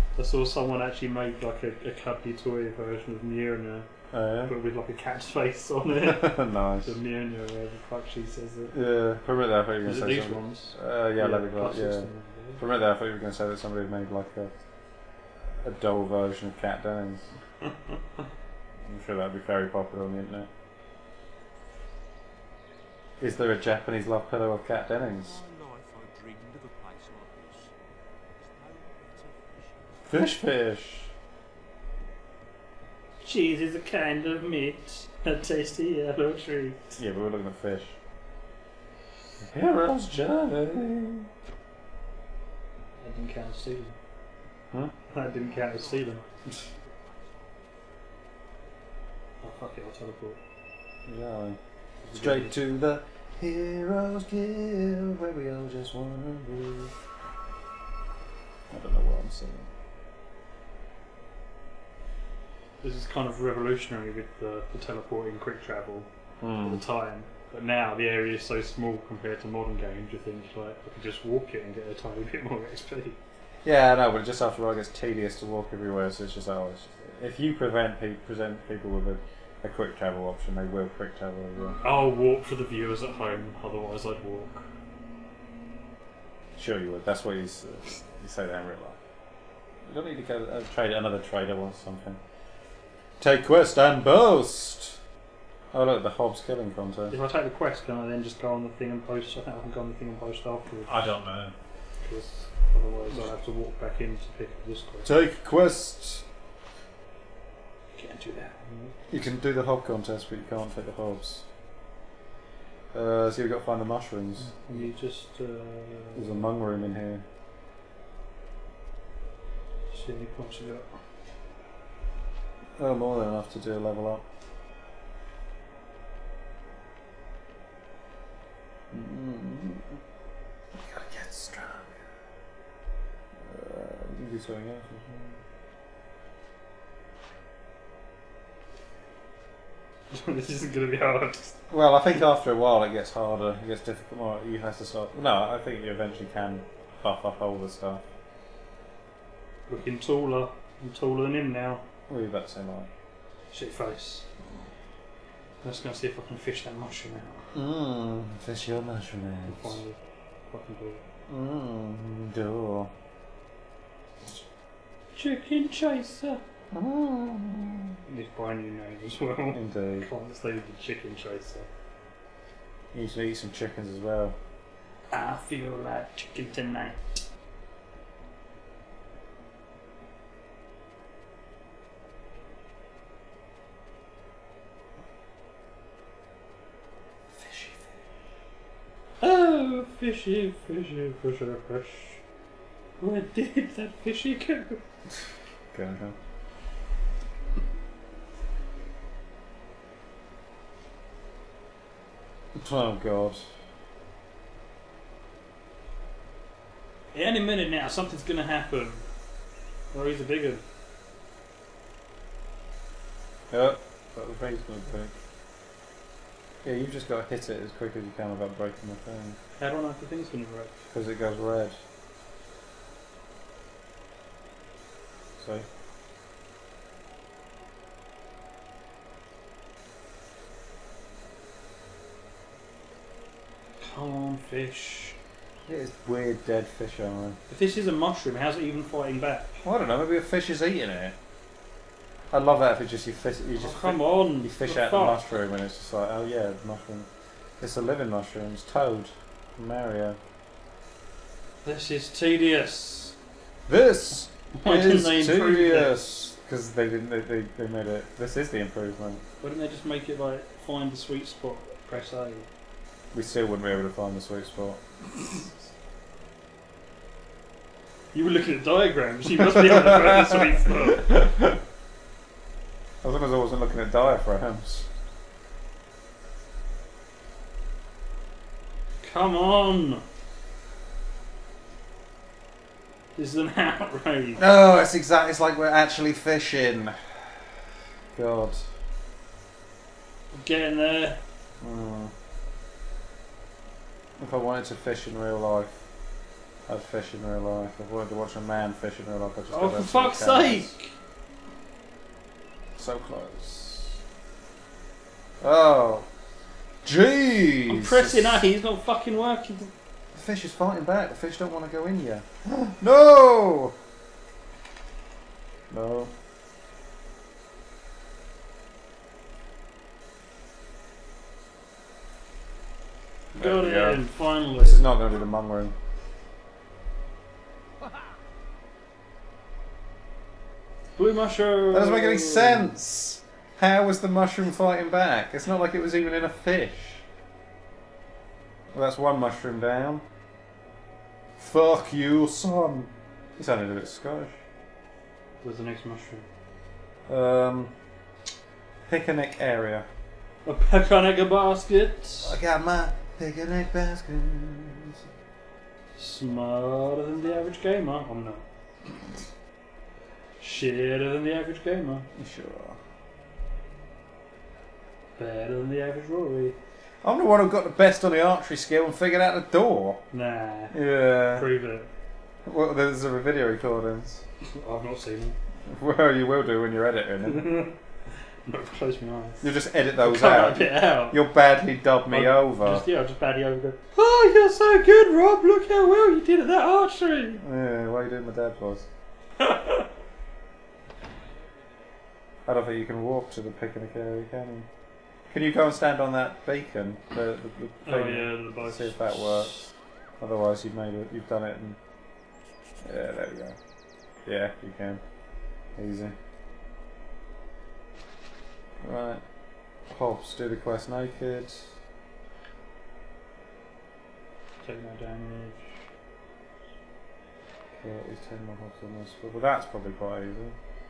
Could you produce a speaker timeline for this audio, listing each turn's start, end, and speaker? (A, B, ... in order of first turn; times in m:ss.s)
0:00.2-0:03.9 A
0:04.1-0:04.5 B
0:04.4-0:08.8 A
0:06.0-0:07.0 B
0:08.7-0:14.6 B
0:09.8-0:12.6 A
0:15.5-0:17.4 B
0:18.8-0:20.5 B
0:23.2-0:25.4 B
0:25.2-0:27.7 C
0:28.4-0:29.9 C
0:30.1-0:31.1 B
0:33.2-0:37.0 A
0:37.0-0:38.0 B
0:39.4-0:41.3 B
0:43.0-0:44.0 A
0:45.1-0:46.2 A
0:45.3-0:47.5 C
0:49.4-0:50.4 A
0:51.0-0:51.6 B
0:52.0-0:52.6 A
0:52.1-0:56.9 B
0:58.7-0:59.7 B
1:02.8-1:13.2 A
1:06.4-1:06.8 B
1:13.6-1:21.8 B
1:21.8-1:24.7 A
1:26.6-1:29.0 B
1:29.9-1:32.2 B
1:33.2-1:35.0 B
1:35.7-1:37.2 B
1:37.1-1:41.1 A
1:40.9-1:41.6 B
1:42.0-1:45.1 A
1:45.0-1:46.3 B
1:48.0-1:49.0 A
1:49.1-1:51.5 B
1:52.9-1:54.5 B
1:54.4-1:56.5 A
1:56.2-1:57.2 B
1:59.9-2:00.9 A
2:02.8-2:04.2 B
2:08.9-2:10.0 B
2:10.8-2:12.0 B
2:13.4-2:15.4 B
2:20.1-2:21.5 A
2:21.7-2:28.0 B
2:29.7-2:31.8 A
2:32.1-2:32.9 B
2:33.5-2:34.3 A
2:35.6-2:37.5 A
2:37.5-2:39.8 B
2:39.5-2:41.0 A
2:41.3-2:42.9 B
2:45.2-2:46.4 A
2:46.7-2:48.0 B
2:48.1-2:51.7 A
2:49.5-2:50.1 B
2:52.9-2:54.4 B
2:55.1-2:57.2 A
3:07.3-3:07.9 B
3:09.2-3:12.2 A
3:13.0-3:14.8 A
3:15.7-3:16.2 B
3:22.6-3:23.5 B
3:27.1-3:29.0 A
3:29.9-3:30.6 A
3:33.5-3:35.2 B
3:36.6-3:39.4 B
3:39.6-3:40.8 A
3:40.9-3:41.8 B
3:45.4-3:45.7 B
3:53.8-3:55.2 A
3:55.7-3:57.4 B
3:57.5-3:59.6 A
3:59.6-4:01.2 B
4:02.3-4:07.1 B
4:03.6-4:05.2 A
4:07.6-4:10.2 B
4:11.6-4:13.2 A
4:13.7-4:19.2 B
4:14.6-4:16.3 A
4:19.4-4:22.5 A
4:23.1-4:25.6 B
4:28.1-4:31.1 A
4:29.6-4:31.6 B
4:33.0-4:34.9 B
4:39.0-4:40.0 A
4:43.2-4:44.4 A
4:44.4-4:47.6 B
4:48.2-4:48.8 B
4:50.3-4:51.2 A
4:51.6-4:52.1 B
4:54.2-4:55.8 B
4:56.7-5:00.7 B
4:59.5-5:00.9 A
5:02.8-5:04.0 B
5:05.4-5:06.1 B
5:06.8-5:08.5 B
5:07.7-5:09.7 A
5:10.1-5:13.8 B
5:15.7-5:16.1 B
5:23.3-5:24.8 A
5:23.4-5:25.8 B
5:31.0-5:32.7 A
5:31.7-5:37.0 B
5:38.7-5:40.0 B
5:41.4-5:44.4 B
5:45.4-5:46.3 A
5:47.1-5:47.7 B
5:48.9-5:49.9 B
5:50.4-5:52.4 A
5:52.2-5:55.0 B
5:56.0-5:58.4 A
6:00.4-6:02.1 A
6:02.2-6:02.8 B
6:05.2-6:06.6 A
6:07.0-6:10.0 B
6:10.1-6:11.9 A
6:10.7-6:11.5 B
6:12.4-6:14.2 B
6:14.4-6:15.4 A
6:15.7-6:17.5 B
6:17.2-6:17.8 A
6:18.4-6:19.5 A
6:19.4-6:22.8 B
6:20.0-6:21.2 A
6:22.1-6:27.4 A
6:27.4-6:28.9 B
6:29.4-6:29.9 A
6:32.5-6:34.7 B
6:35.3-6:39.6 B
6:37.8-6:39.6 A
6:40.2-6:41.8 B
6:42.8-6:43.6 B
6:44.2-6:45.0 B
6:45.7-6:46.2 B
6:48.8-6:49.3 B
6:49.8-6:51.7 B
6:54.6-6:55.8 A
6:57.7-7:00.6 B